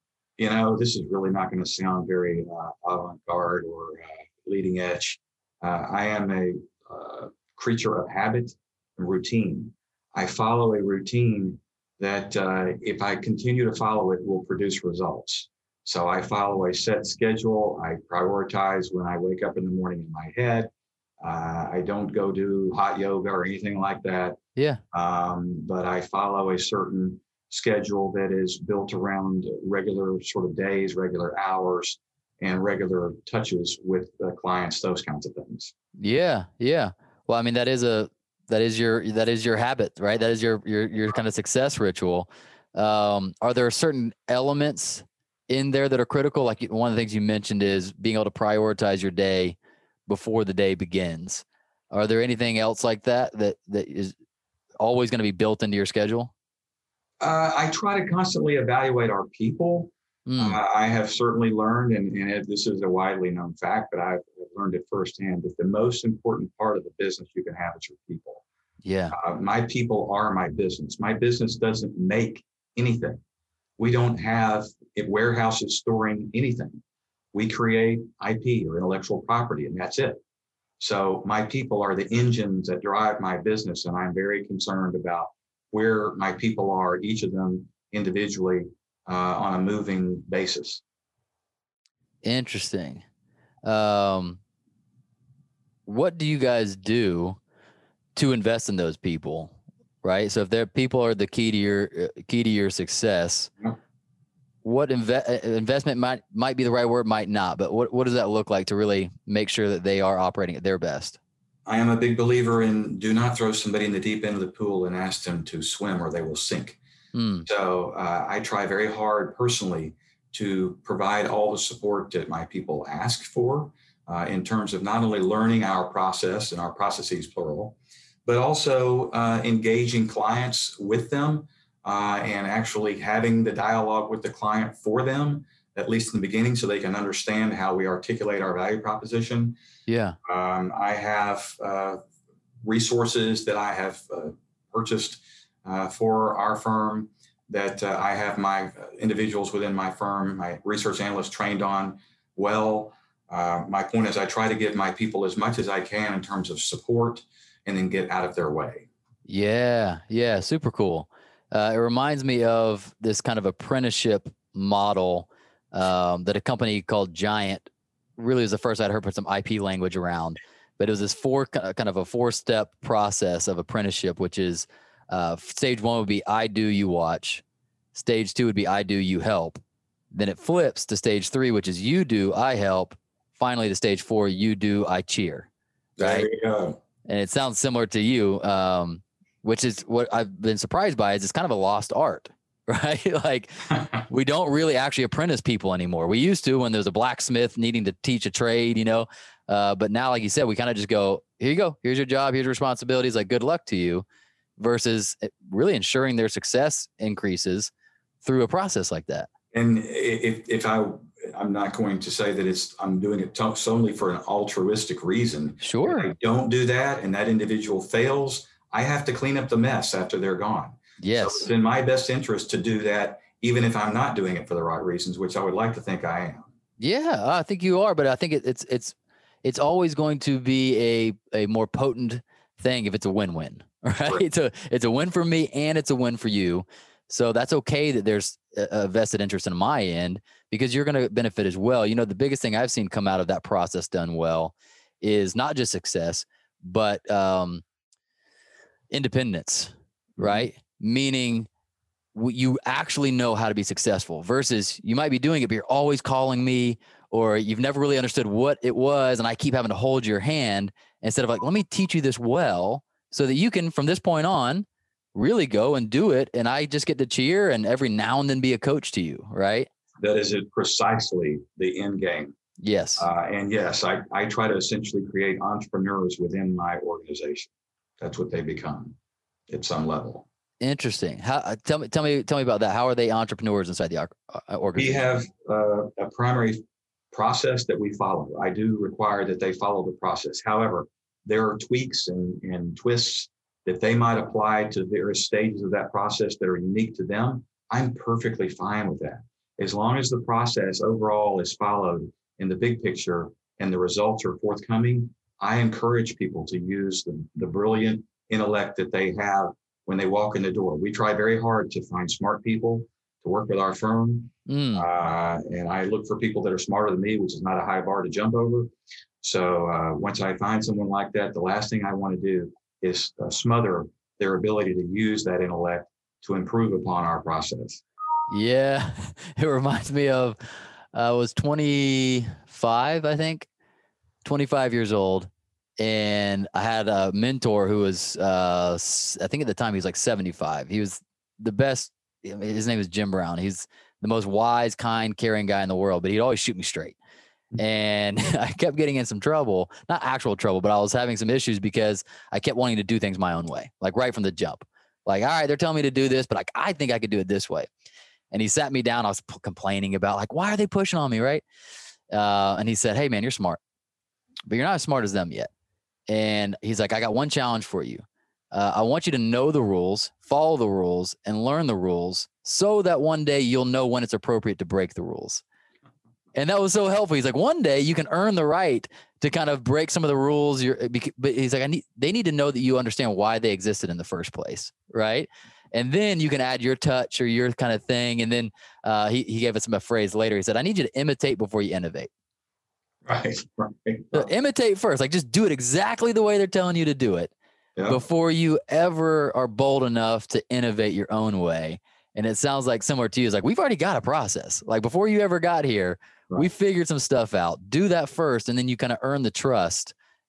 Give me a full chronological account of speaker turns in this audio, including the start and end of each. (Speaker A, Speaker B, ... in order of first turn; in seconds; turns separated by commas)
Speaker A: 0.4-24.4, Speaker B: 24.6-24.8, Speaker A: 24.9-35.7, Speaker B: 36.0-54.1, Speaker B: 54.8-56.3, Speaker A: 57.2-68.4, Speaker B: 60.2-60.6, Speaker B: 68.8-69.2, Speaker A: 69.1-73.2, Speaker A: 73.8-76.8, Speaker A: 77.3-80.2, Speaker A: 80.8-90.8, Speaker B: 92.2-93.0, Speaker B: 93.6-94.4, Speaker B: 95.8-97.4, Speaker B: 98.1-103.5, Speaker B: 104.6-111.2, Speaker A: 111.7-116.8, Speaker B: 117.1-117.5, Speaker A: 117.4-139.6, Speaker B: 139.9-140.2, Speaker A: 140.2-142.0, Speaker A: 142.6-158.9, Speaker B: 159.2-177.4, Speaker B: 177.9-179.6, Speaker B: 180.1-185.5, Speaker A: 186.0-186.8, Speaker B: 186.0-186.3, Speaker B: 187.1-204.0, Speaker B: 204.6-207.7, Speaker B: 208.2-209.3, Speaker A: 209.5-226.5, Speaker B: 215.6-216.1, Speaker B: 221.0-221.5, Speaker B: 226.8-247.6, Speaker B: 248.9-251.5, Speaker A: 250.2-250.5, Speaker B: 252.1-269.7, Speaker A: 270.0-272.4, Speaker B: 272.6-273.1, Speaker A: 273.0-278.9, Speaker A: 279.5-280.2, Speaker B: 280.6-285.1, Speaker A: 284.8-327.8, Speaker B: 314.5-314.9, Speaker B: 328.3-330.4, Speaker B: 330.9-333.5, Speaker B: 334.2-346.9, Speaker B: 347.6-357.7, Speaker B: 358.3-361.4, Speaker B: 362.1-363.6, Speaker B: 364.5-365.5, Speaker B: 366.1-375.4, Speaker B: 376.3-392.1, Speaker A: 393.0-394.3, Speaker B: 394.1-397.3, Speaker B: 397.9-409.9